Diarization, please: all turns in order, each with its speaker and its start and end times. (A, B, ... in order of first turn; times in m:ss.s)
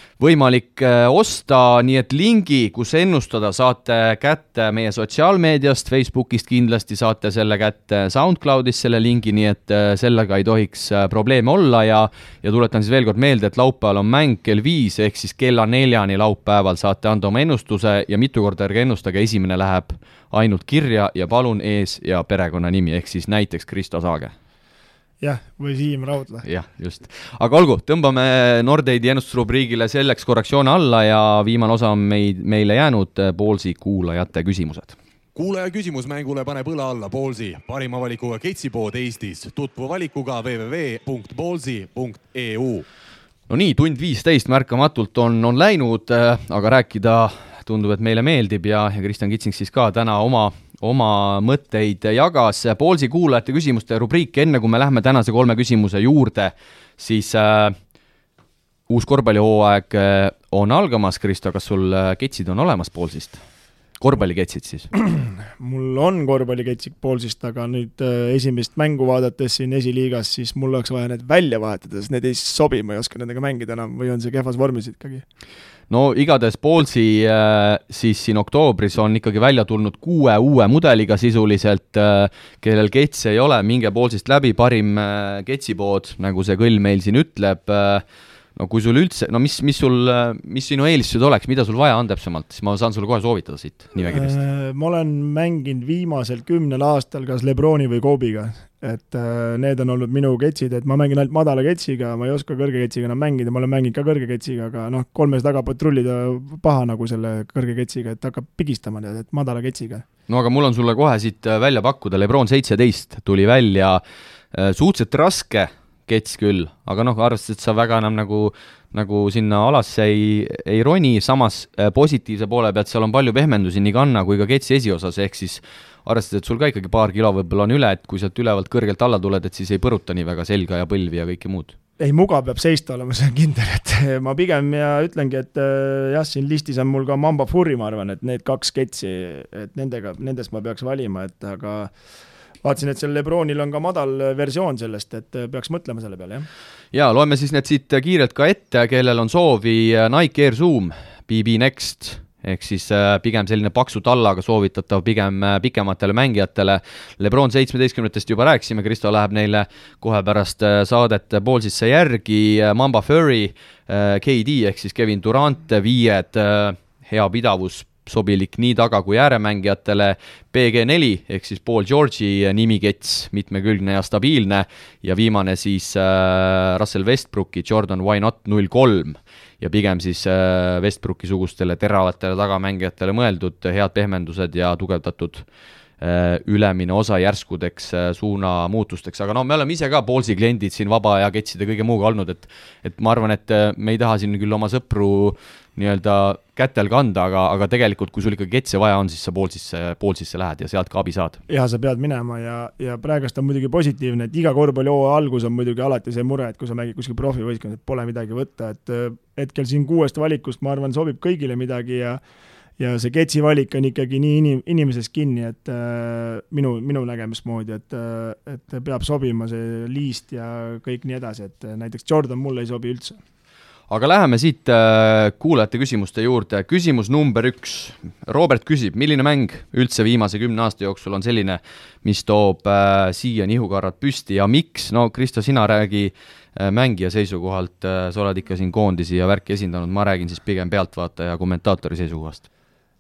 0:00.2-0:24.3 A
0:25.2-0:26.4 B
0:26.4-0:35.0 A
0:35.4-0:42.8 C
0:43.5-0:57.8 A
0:58.9-1:03.4 A
1:04.0-1:04.9 A
1:04.9-1:15.2 B
1:15.9-1:28.0 A
1:28.6-1:34.4 A
1:34.1-1:50.0 B
1:50.3-1:54.0 A
1:54.5-2:11.8 A
2:12.0-2:21.9 B
2:22.6-2:26.5 B
2:26.9-3:05.5 A
3:06.0-3:21.4 A
3:21.5-3:32.2 B
3:32.8-3:43.2 B
3:43.9-4:02.4 A